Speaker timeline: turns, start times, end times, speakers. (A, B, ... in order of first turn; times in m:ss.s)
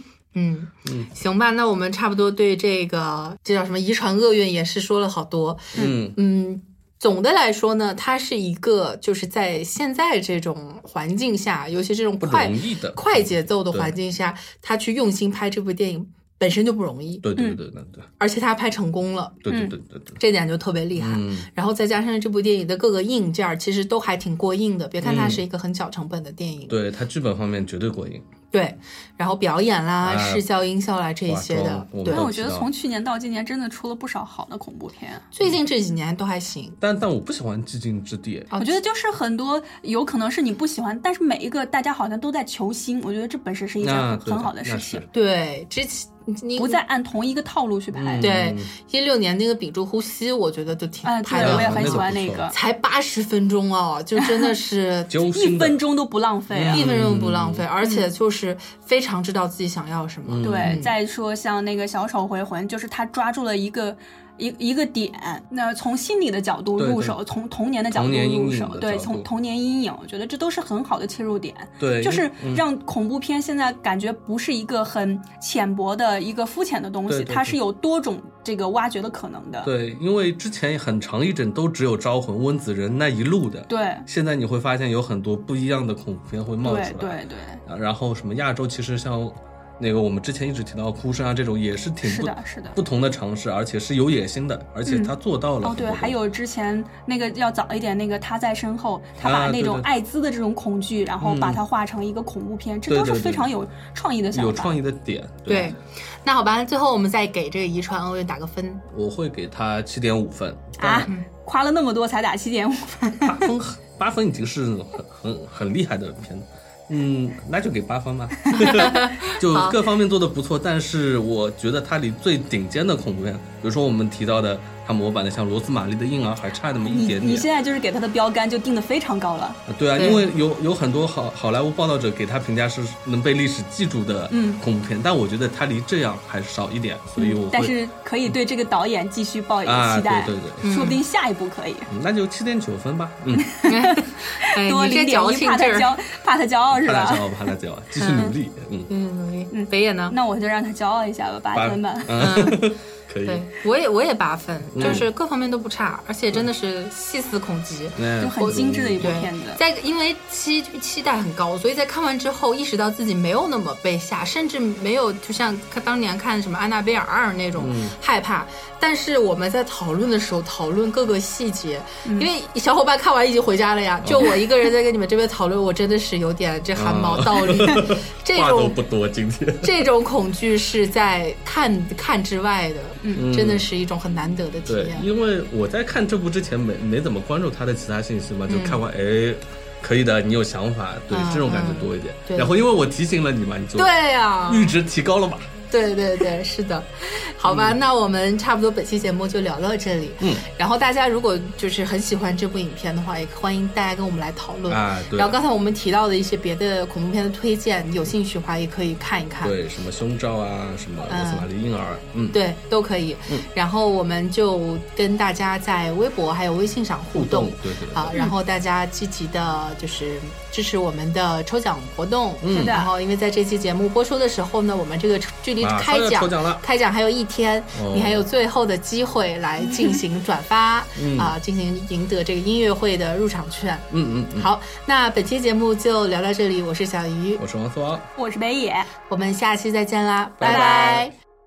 0:00.3-0:17.2 A
0:05.8-0:06.2 B
0:12.2-0:13.9 B
0:17.2-0:18.1 B
0:18.2-0:19.4 A
0:19.4-0:20.2 B
0:20.2-0:26.8 A
0:21.0-0:21.5 B
0:25.0-0:25.4 B
0:26.7-0:28.2 B
0:28.5-0:32.2 A
0:30.0-0:30.5 B
0:31.2-0:32.7 B
0:32.1-0:35.2 C
0:35.3-0:36.8 A
0:36.8-0:38.5 B
0:38.5-0:38.8 A
0:38.6-0:45.0 C
0:43.8-0:45.1 B
0:45.1-0:46.8 A
0:46.6-0:48.3 C
0:47.9-0:48.7 B
0:48.2-0:55.2 A
0:51.0-0:52.5 C
0:51.4-0:52.5 B
0:54.2-0:54.5 C
0:55.1-0:55.8 B
0:55.3-0:56.8 C
0:56.5-0:57.6 B
0:56.7-1:00.9 A
0:57.8-0:58.1 C
1:00.2-1:00.8 B
1:00.4-1:19.7 C
1:06.8-1:07.2 B
1:07.9-1:09.3 B
1:11.8-1:12.6 B
1:17.1-1:17.6 B
1:19.6-1:36.2 B
1:23.7-1:24.0 C
1:26.6-1:27.6 C
1:32.0-1:32.8 C
1:34.9-1:44.8 C
1:39.2-1:39.9 B
1:41.2-1:41.6 B
1:42.9-1:43.5 B
1:44.3-1:45.8 B
1:45.5-1:48.8 A
1:48.9-1:51.1 B
1:50.8-1:53.5 C
1:53.2-2:07.5 B
1:58.5-1:59.8 A
2:06.9-2:09.6 C
2:09.7-2:17.8 B
2:10.0-2:10.2 A
2:14.3-2:14.6 C
2:17.2-2:21.9 C
2:19.6-2:20.6 B
2:20.6-2:21.0 A
2:21.9-2:23.5 B
2:23.4-2:28.3 C
2:23.6-2:25.9 A
2:26.7-2:28.9 B
2:28.9-2:30.1 A
2:29.5-2:32.6 C
2:31.5-2:33.4 B
2:32.2-2:32.6 A
2:33.2-2:58.8 A
2:34.7-2:35.1 B
2:37.9-2:39.2 B
2:38.2-2:39.6 C
2:47.6-2:48.0 B
2:54.0-2:54.3 B
2:56.8-2:59.8 B
2:59.6-3:05.1 A
3:03.1-3:03.7 B
3:04.6-3:13.9 B
3:08.5-3:08.8 A
3:11.1-3:12.6 A
3:13.7-3:14.8 A
3:14.5-3:15.5 B
3:15.7-3:29.6 A
3:17.5-3:17.8 B
3:24.7-3:25.4 B
3:29.4-3:32.4 B
3:31.1-3:31.5 A
3:32.3-3:57.4 A
3:37.1-3:38.3 B
3:42.4-3:42.8 B
3:42.5-3:42.9 C
3:45.6-3:46.6 B
3:47.7-3:48.2 B
3:49.6-3:50.0 C
3:51.0-3:51.4 B
3:53.9-3:54.5 B
3:57.4-3:58.1 B
3:58.2-3:58.9 C
3:59.1-4:01.1 A
4:00.4-4:01.1 B
4:00.4-4:01.0 C